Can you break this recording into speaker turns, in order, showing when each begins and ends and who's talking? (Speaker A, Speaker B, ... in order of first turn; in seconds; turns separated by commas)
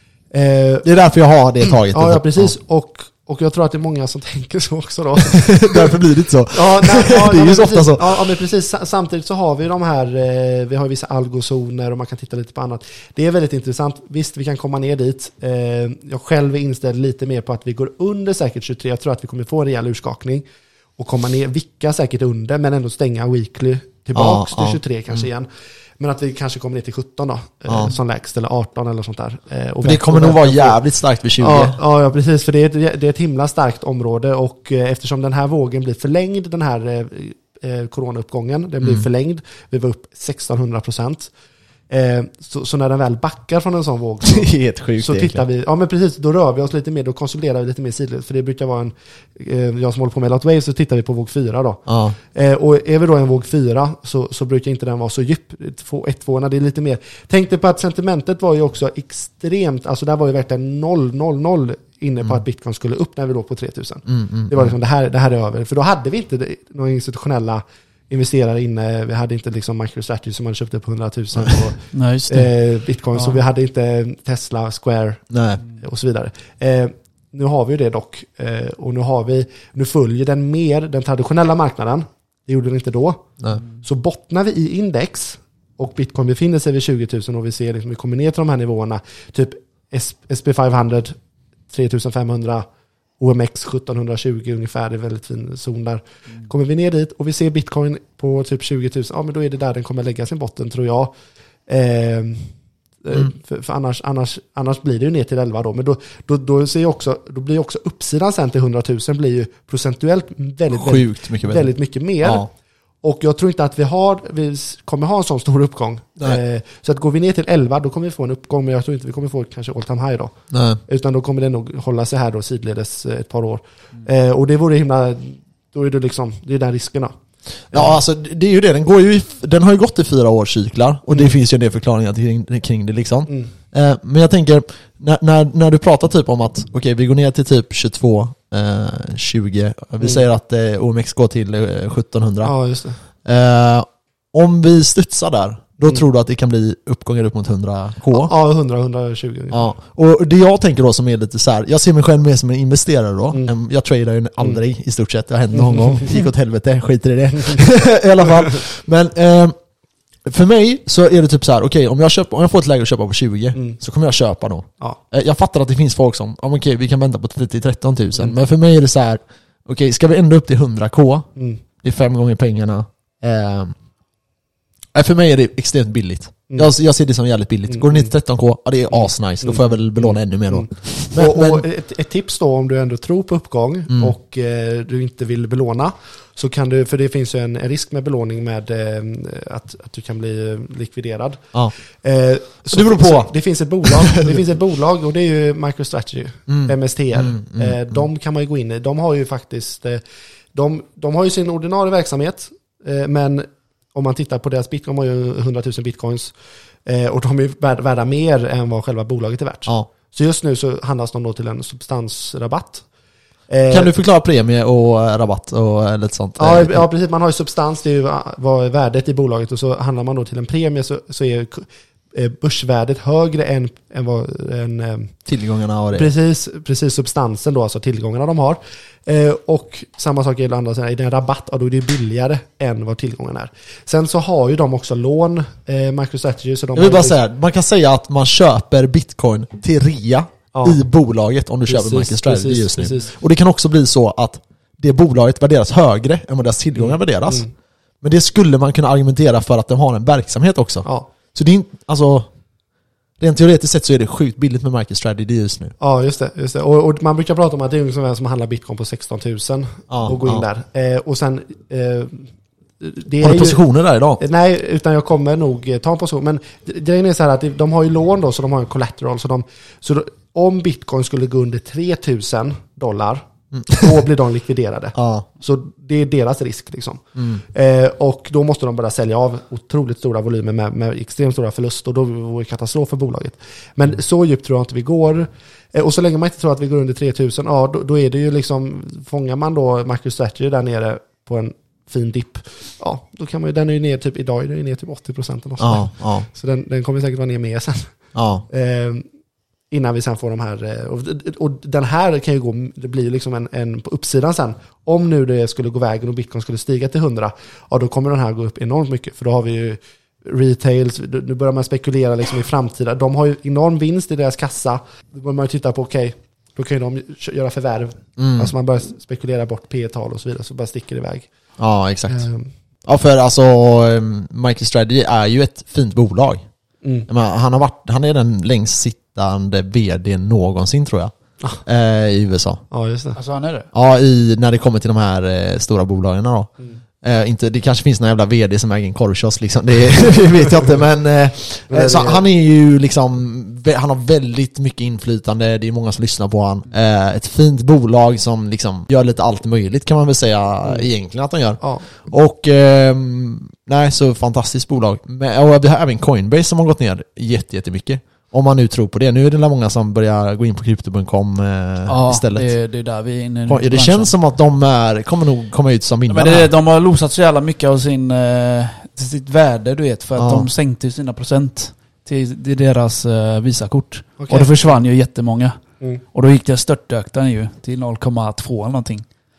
Speaker A: 0.3-0.9, Speaker B: 0.8-2.5, Speaker A: 1.9-6.0, Speaker B: 5.3-8.2, Speaker A: 6.5-20.4, Speaker A: 21.0-25.5, Speaker B: 24.2-24.8, Speaker A: 26.0-30.8, Speaker B: 27.7-27.9, Speaker B: 29.8-31.8, Speaker A: 31.4-41.3, Speaker A: 41.9-91.2, Speaker B: 44.2-45.4, Speaker B: 51.9-52.2, Speaker B: 64.1-64.8, Speaker C: 71.9-72.5, Speaker C: 73.1-73.4, Speaker B: 75.3-75.6, Speaker A: 91.7-92.7, Speaker A: 93.2-101.1, Speaker A: 101.7-112.5, Speaker B: 110.7-111.7, Speaker B: 112.2-112.5, Speaker A: 113.0-127.1, Speaker B: 120.5-120.8, Speaker A: 127.7-128.0, Speaker B: 127.7-142.6, Speaker A: 142.4-143.0, Speaker B: 143.2-148.3, Speaker A: 148.1-149.7, Speaker B: 149.5-159.6, Speaker A: 155.5-156.1, Speaker B: 160.2-171.3, Speaker B: 171.8-173.8, Speaker B: 174.9-181.6, Speaker A: 177.7-178.1, Speaker A: 178.9-200.0, Speaker B: 192.7-193.3, Speaker B: 193.8-194.4, Speaker B: 196.5-198.0, Speaker A: 200.5-206.3, Speaker A: 206.8-212.9, Speaker A: 213.5-213.9, Speaker B: 213.7-216.8, Speaker A: 216.4-225.2, Speaker B: 225.3-226.1, Speaker A: 225.9-237.2, Speaker B: 236.8-247.5, Speaker A: 240.5-240.8, Speaker A: 241.7-243.1, Speaker A: 246.8-247.5, Speaker B: 248.0-252.3, Speaker A: 250.8-251.1, Speaker B: 253.2-255.7, Speaker A: 255.8-263.6, Speaker B: 259.9-260.4, Speaker B: 263.2-264.2, Speaker A: 264.2-297.9, Speaker B: 273.5-273.9, Speaker B: 274.9-275.3, Speaker B: 295.6-296.3, Speaker B: 298.1-298.4, Speaker A: 298.5-299.1, Speaker A: 299.7-321.3, Speaker B: 318.2-318.5, Speaker B: 321.6-322.2, Speaker A: 322.1-322.5, Speaker B: 322.9-326.4, Speaker A: 326.8-327.1, Speaker B: 327.1-332.6, Speaker A: 332.7-333.2, Speaker C: 333.2-333.7, Speaker B: 333.7-362.6, Speaker A: 341.7-342.2, Speaker A: 351.6-351.9, Speaker C: 361.9-364.1, Speaker B: 363.5-366.5, Speaker C: 366.1-375.6, Speaker B: 370.2-370.5, Speaker A: 374.2-374.5, Speaker C: 376.1-379.1